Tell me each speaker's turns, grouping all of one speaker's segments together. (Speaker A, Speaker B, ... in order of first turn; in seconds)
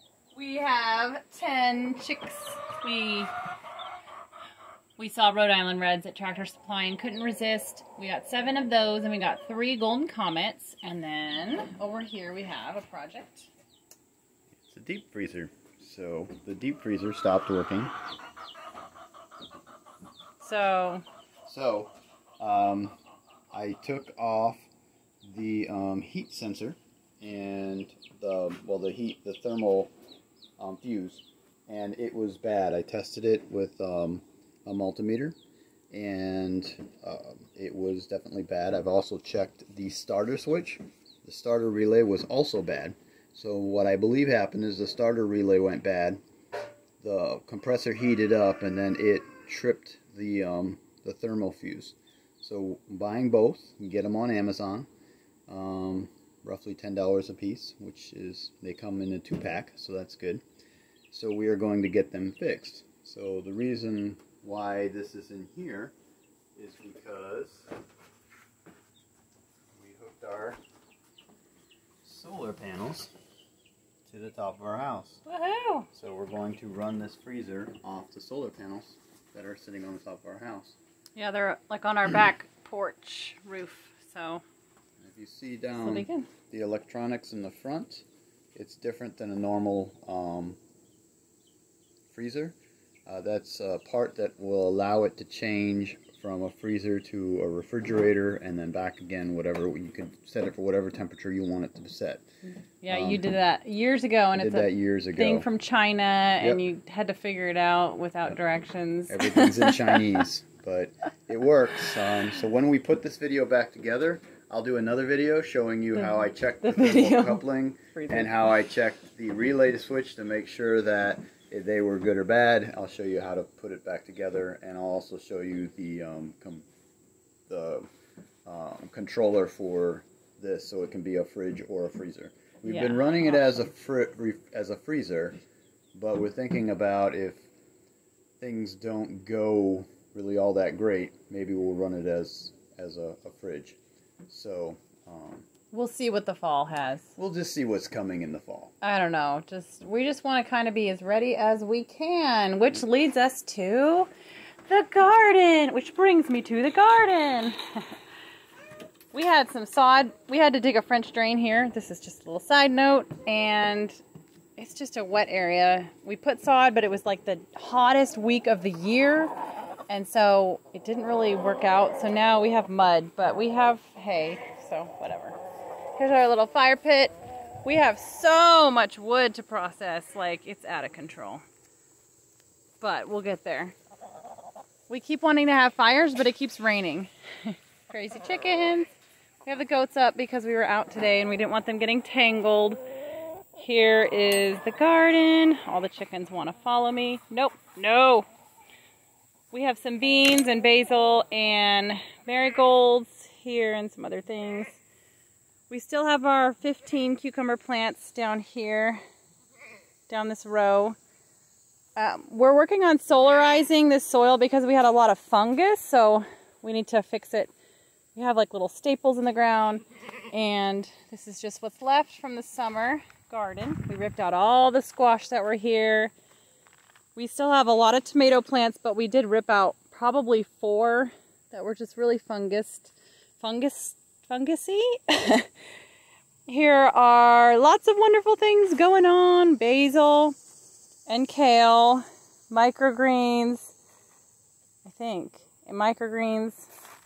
Speaker A: 0.3-3.3, 5.0-13.5, 20.4-21.0, 75.3-75.9, 81.2-84.4, 85.7-86.3, 102.8-110.2, 115.9-118.3, 132.7-133.4, 145.7-147.1, 148.8-154.1, 154.7-157.8, 159.1-164.0, 164.6-169.3, 169.9-175.4, 176.0-177.1, 177.6-181.4, 182.8-183.7, 184.9-188.9, 189.4-192.8, 193.6-198.2, 199.5-204.8, 205.7-209.0, 210.1-210.9, 211.9-217.5, 218.1-226.1, 227.2-235.5, 236.5-240.3, 241.1-243.7, 244.8-246.7
Speaker B: 14.6-17.9, 21.4-22.9, 23.5-24.7, 25.2-29.9, 30.6-35.3, 35.9-46.2, 47.0-54.9, 55.5-60.4, 61.1-65.9, 66.5-67.7, 69.7-70.6, 72.0-73.1, 74.0-75.2, 75.9-80.8, 85.0-90.6, 92.1-92.5, 93.0-102.2, 102.9-103.2, 104.3-105.5, 109.1-126.6, 127.5-127.8, 128.4-135.4, 135.9-137.5, 138.4-145.5, 147.2-148.7